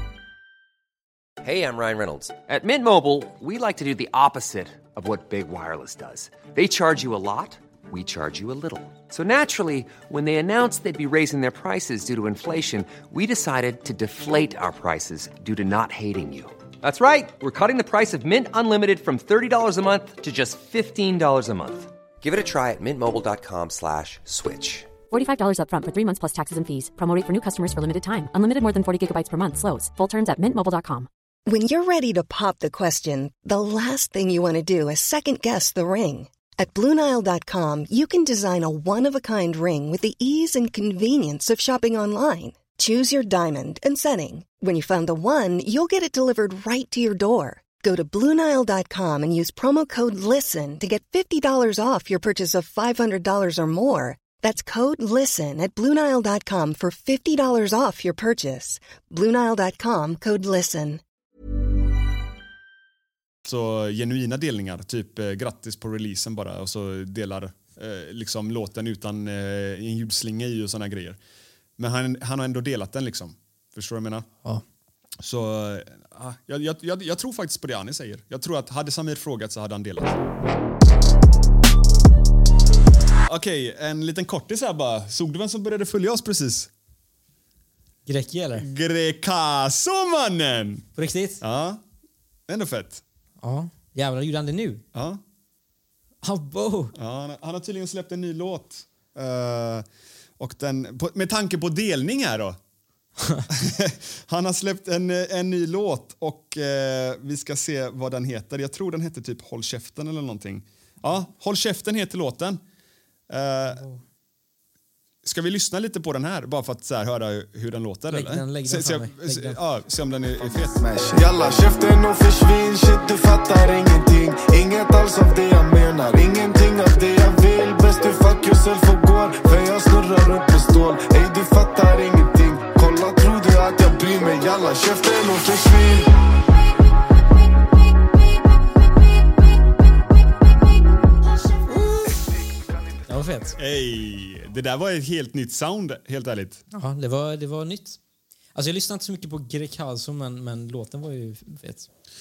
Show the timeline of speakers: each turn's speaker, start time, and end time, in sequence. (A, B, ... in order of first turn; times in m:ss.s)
0:01.4-0:24.9 A
0:25.1-0:31.1 B
0:31.4-1:01.0 C
1:03.4-1:11.2 D
1:11.8-1:14.3 D
1:15.2-1:20.2 D
1:23.2-1:26.7 D
1:28.0-1:28.6 E
1:28.6-1:30.8 D
1:31.0-1:31.4 E
1:31.4-1:31.8 D
1:32.5-1:33.0 D
1:33.4-1:34.8 E
1:34.9-1:35.2 D
1:36.2-1:36.9 E
1:37.0-1:39.8 D
1:40.4-1:42.6 D
1:43.2-1:43.4 E
1:43.5-1:52.6 D
1:53.3-1:53.8 D
1:53.8-1:54.0 E
1:55.2-2:00.8 D
1:58.1-1:59.6 E
2:00.8-2:16.1 F
2:23.1-2:23.6 E
2:23.6-2:26.6 D
2:26.7-2:28.0 E
2:28.5-2:31.9 E